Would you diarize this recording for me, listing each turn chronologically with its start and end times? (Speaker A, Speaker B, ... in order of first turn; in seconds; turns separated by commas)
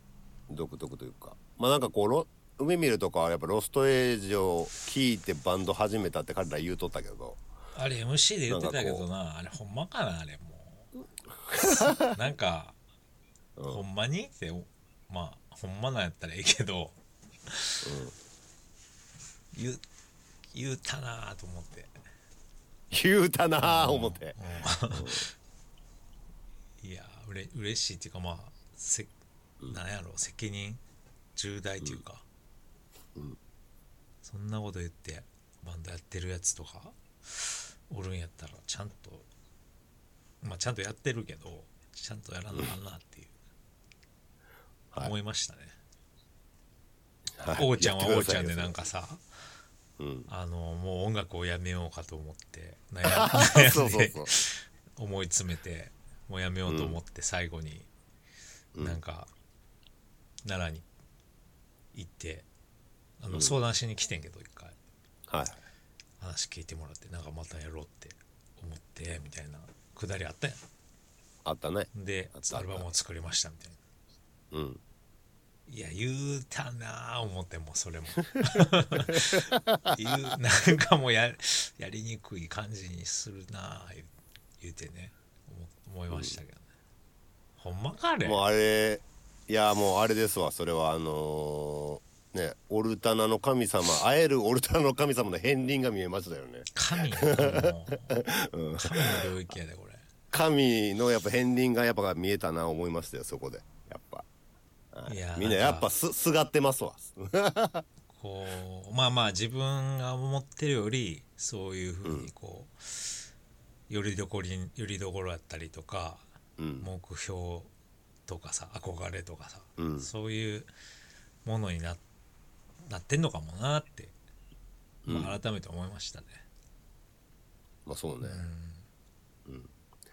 Speaker A: 0.5-7.4, Speaker B: 7.7-10.9, Speaker A: 8.5-9.1, Speaker A: 11.5-12.1, Speaker B: 11.6-12.8, Speaker A: 13.6-13.8, Speaker B: 13.7-17.0, Speaker B: 17.5-17.9, Speaker A: 17.8-18.1, Speaker B: 19.5-19.8, Speaker B: 20.5-21.9, Speaker A: 22.9-24.4, Speaker B: 23.6-25.3, Speaker A: 24.9-25.2, Speaker B: 26.8-29.1, Speaker B: 29.7-30.8, Speaker B: 31.4-32.2, Speaker B: 34.2-39.3, Speaker B: 40.4-43.3, Speaker B: 45.0-45.8, Speaker A: 47.4-48.8, Speaker B: 47.5-49.2, Speaker A: 50.0-50.3, Speaker B: 50.3-57.9, Speaker A: 53.1-54.3, Speaker A: 56.7-57.0, Speaker B: 58.8-59.3, Speaker B: 60.5-60.9, Speaker B: 61.9-62.5, Speaker B: 63.2-64.8, Speaker A: 65.3-65.6, Speaker B: 66.2-70.6, Speaker A: 71.5-72.9, Speaker B: 71.9-73.8, Speaker A: 74.5-74.8, Speaker B: 75.7-86.7, Speaker A: 78.6-79.9, Speaker A: 86.1-86.4, Speaker B: 87.6-88.4, Speaker A: 88.2-96.7, Speaker B: 96.7-98.2, Speaker A: 97.2-99.3, Speaker B: 98.8-100.1, Speaker A: 100.3-104.3, Speaker A: 104.9-107.8, Speaker B: 105.1-105.9, Speaker B: 108.1-113.2, Speaker A: 112.0-112.3, Speaker B: 113.9-116.3, Speaker A: 116.6-116.9, Speaker B: 116.8-117.7, Speaker B: 118.3-120.7, Speaker A: 119.8-120.1, Speaker B: 121.5-122.0, Speaker B: 122.9-124.2, Speaker A: 125.0-125.4, Speaker B: 125.1-126.4, Speaker A: 127.9-128.5, Speaker B: 128.2-128.8, Speaker A: 129.5-129.7